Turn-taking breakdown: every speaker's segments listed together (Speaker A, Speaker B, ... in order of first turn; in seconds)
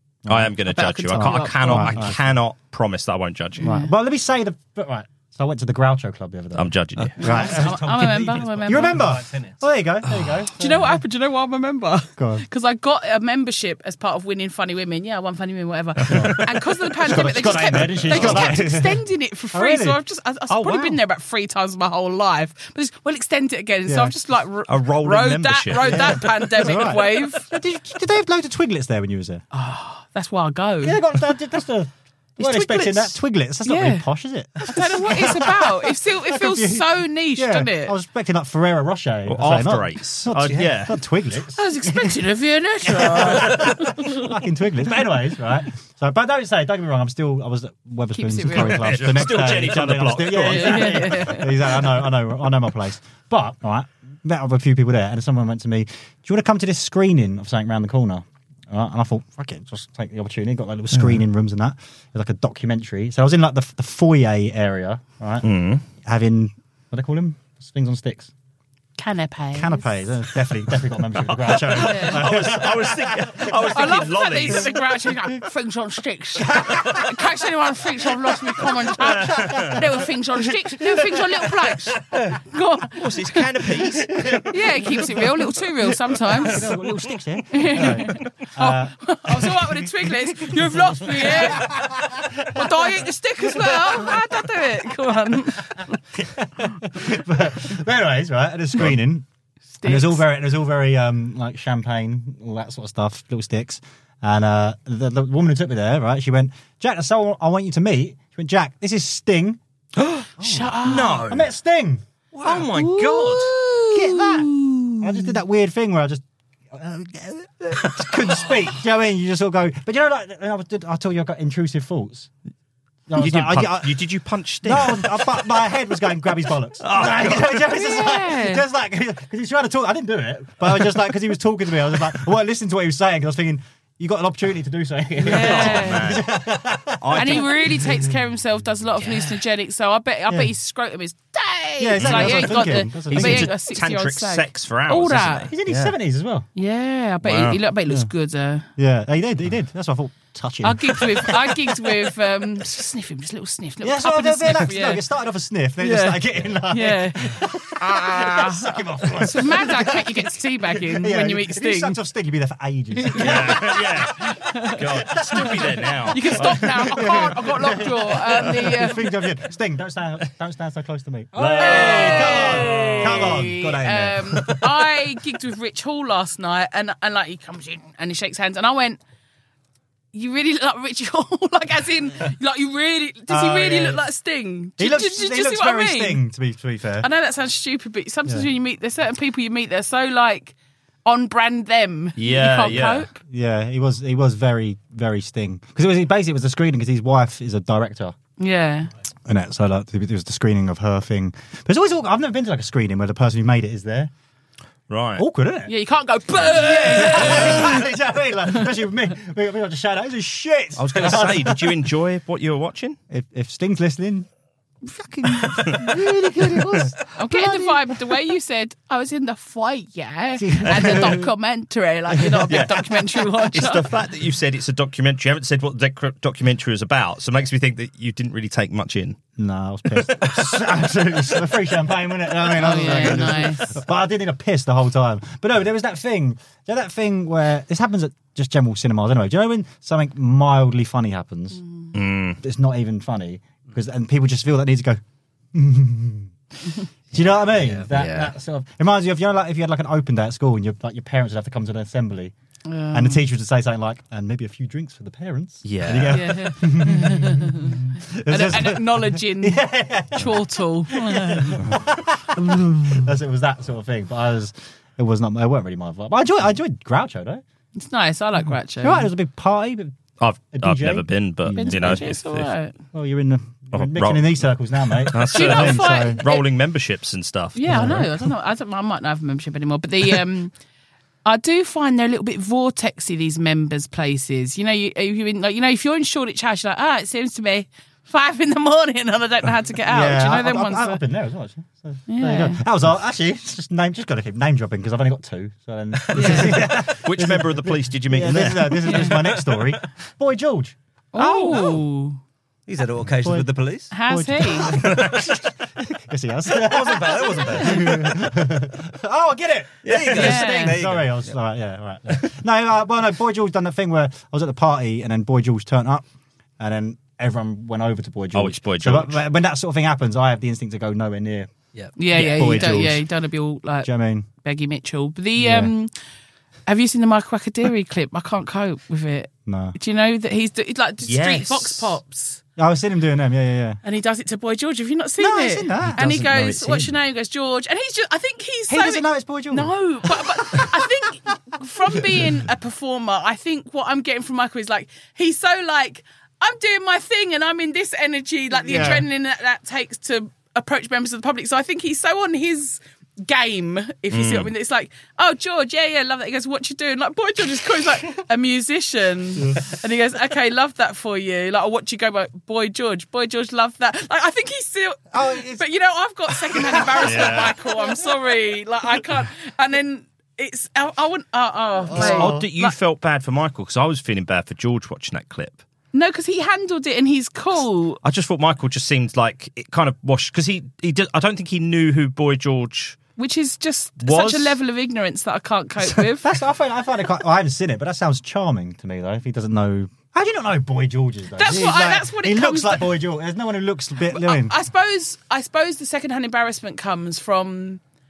Speaker A: 0.2-2.2, 3.6-11.0, 12.2-12.4, 16.1-20.9, 23.9-24.1, 25.8-29.4, 30.8-42.2, 42.9-68.3, 69.5-73.7, 76.5-77.0, 78.6-79.8, 80.8-81.2, 84.1-85.3, 86.4-94.5, 96.2-99.2, 99.8-109.6, 110.4-112.0, 113.9-122.3, 123.1-124.0, 124.6-138.1, 141.8-143.5, 145.5-146.5, 148.8-152.0, 153.8-174.8, 183.3-184.0, 184.8-187.1, 193.3-198.1, 199.2-204.1, 205.2-205.7, 206.4-211.9, 213.1-214.3, 214.8-218.0, 220.4-221.3, 222.1-222.9, 229.4-241.6, 242.4-245.0, 245.5-246.3, 247.1-252.3, 252.9-267.4, 268.8-270.0, 270.5-272.1, 272.9-276.2, 277.7-278.1, 289.9-300.8, 303.2-305.2, 305.9-316.1, 316.6-321.6, 322.1-323.1, 323.8-324.3, 325.4-325.7, 329.5-329.8, 332.6-333.8, 335.2-336.6, 338.7-340.9, 342.1-342.4, 348.6-349.1, 359.4-359.8, 365.1-365.6, 366.3-367.5, 371.9-372.5, 386.2-394.5
Speaker B: 0.3-3.7, 6.5-7.2, 18.1-18.6, 24.7-26.3, 39.3-41.0, 48.5-51.0, 60.9-61.2, 65.4-65.8, 71.4-74.8, 79.2-79.8, 82.9-84.1, 110.8-111.5, 112.4-113.5, 123.2-125.5, 126.8-127.6, 135.3-136.3, 137.0-137.7, 139.0-139.3, 142.0-145.9, 147.2-147.6, 163.2-167.2, 171.3-173.4, 192.2-193.1, 204.9-205.2, 207.1-207.5, 210.8-213.0, 222.5-222.9, 223.5-229.2, 241.9-242.4, 247.9-248.3, 255.6-256.5, 270.2-272.5, 273.7-274.5, 275.0-278.1, 296.6-299.1, 318.3-319.2, 331.0-332.0, 335.9-336.9, 354.1-354.5, 367.0-367.6, 371.9-375.6, 378.0-383.0, 384.0-384.6
Speaker C: 0.7-2.1, 3.6-3.9, 7.2-9.1, 10.6-27.4, 29.5-31.0, 32.4-34.1, 34.6-37.9, 41.5-44.3, 48.1-49.0, 50.4-51.8, 69.0-69.9, 71.8-72.2, 73.7-83.5, 84.5-86.6, 87.5-91.9, 92.5-96.0, 99.7-100.2, 110.4-111.3, 112.8-115.0, 127.7-128.6, 135.2-136.1, 137.2-145.5, 146.5-148.7, 150.6-155.0, 156.7-162.0, 163.0-165.5, 166.1-169.0, 171.6-179.0, 180.1-186.2, 187.0-193.2, 198.4-198.9, 205.7-207.8, 217.1-223.8, 232.6-233.7, 252.7-253.2, 256.1-259.6, 260.1-261.6, 267.8-269.1, 271.5-272.7, 275.3-276.4, 277.5-280.5, 281.2-291.0, 292.1-292.6, 296.1-296.5, 301.1-302.2, 303.9-304.7, 310.1-310.8, 322.0-323.9, 324.4-325.9, 326.7-332.4, 333.8-372.8, 375.9-378.0, 383.2-386.3, 391.4-392.9, 394.1-397.8
Speaker D: 7.0-9.6, 302.7-303.9, 306.6-308.2, 309.8-311.3